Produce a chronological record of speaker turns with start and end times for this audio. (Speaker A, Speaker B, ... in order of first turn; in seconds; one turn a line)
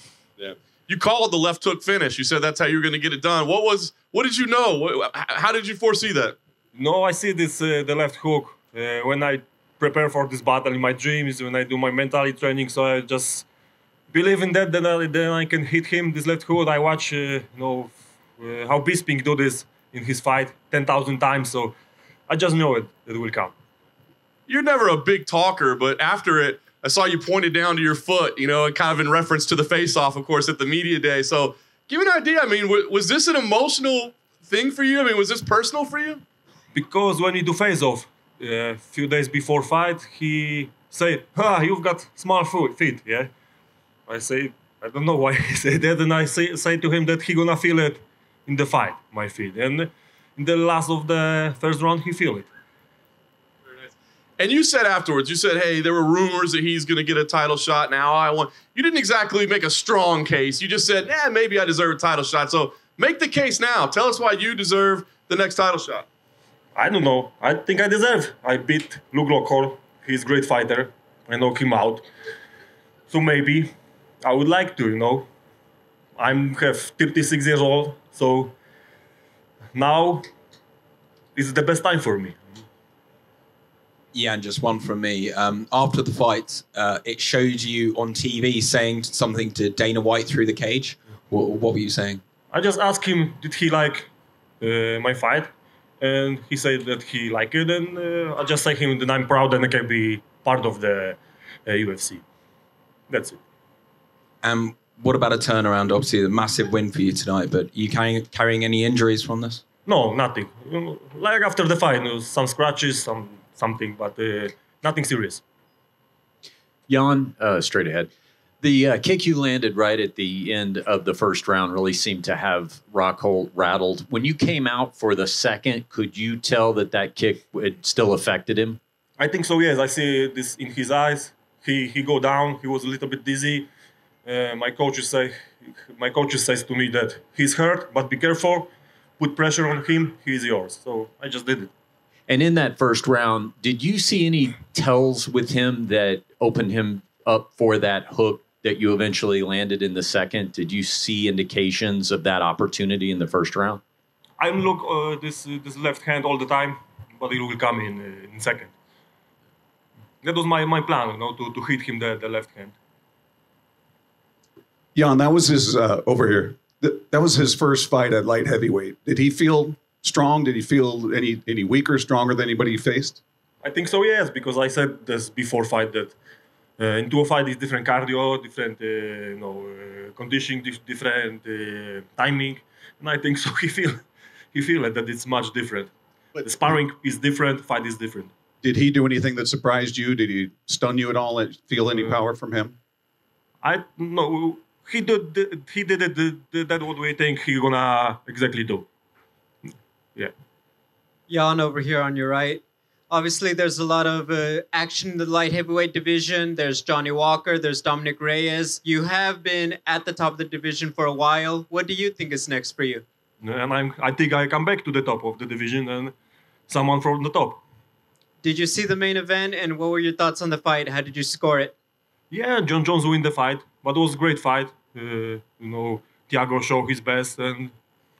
Speaker A: 0.4-6.4
Speaker B: 6.7-13.5
Speaker B: 14.1-21.7
Speaker B: 22.3-23.5
Speaker A: 24.5-36.2
Speaker B: 36.7-43.3
Speaker B: 44.1-52.5
Speaker A: 53.7-66.0
Speaker B: 66.7-72.0
Speaker B: 73.1-73.7
Speaker B: 74.2-75.3
Speaker B: 76.2-78.5
Speaker B: 79.7-80.2
Speaker B: 81.3-82.4
Speaker C: 84.1-92.2
Speaker B: 92.5-102.2
Speaker B: 103.1-103.4
Speaker C: 104.4-109.6
Speaker B: 109.8-115.4
Speaker D: 116.9-118.1
Speaker D: 118.6-128.8
Speaker B: 129.2-133.7
Speaker B: 134.2-141.7
Speaker D: 142.3-153.8
Speaker B: 154.4-158.7
Speaker B: 160.2-162.8
Speaker E: 164.9-173.2
Speaker B: 173.6-176.1
Speaker B: 176.8-184.0
Speaker B: 184.5-185.9
Speaker B: 186.4-188.3
Speaker E: 188.6-192.8
Speaker B: 193.6-198.9
Speaker F: 201.3-213.0
Speaker B: 213.4-216.1
Speaker B: 216.7-217.6
Speaker F: 218.4-221.7
Speaker B: 222.3-227.7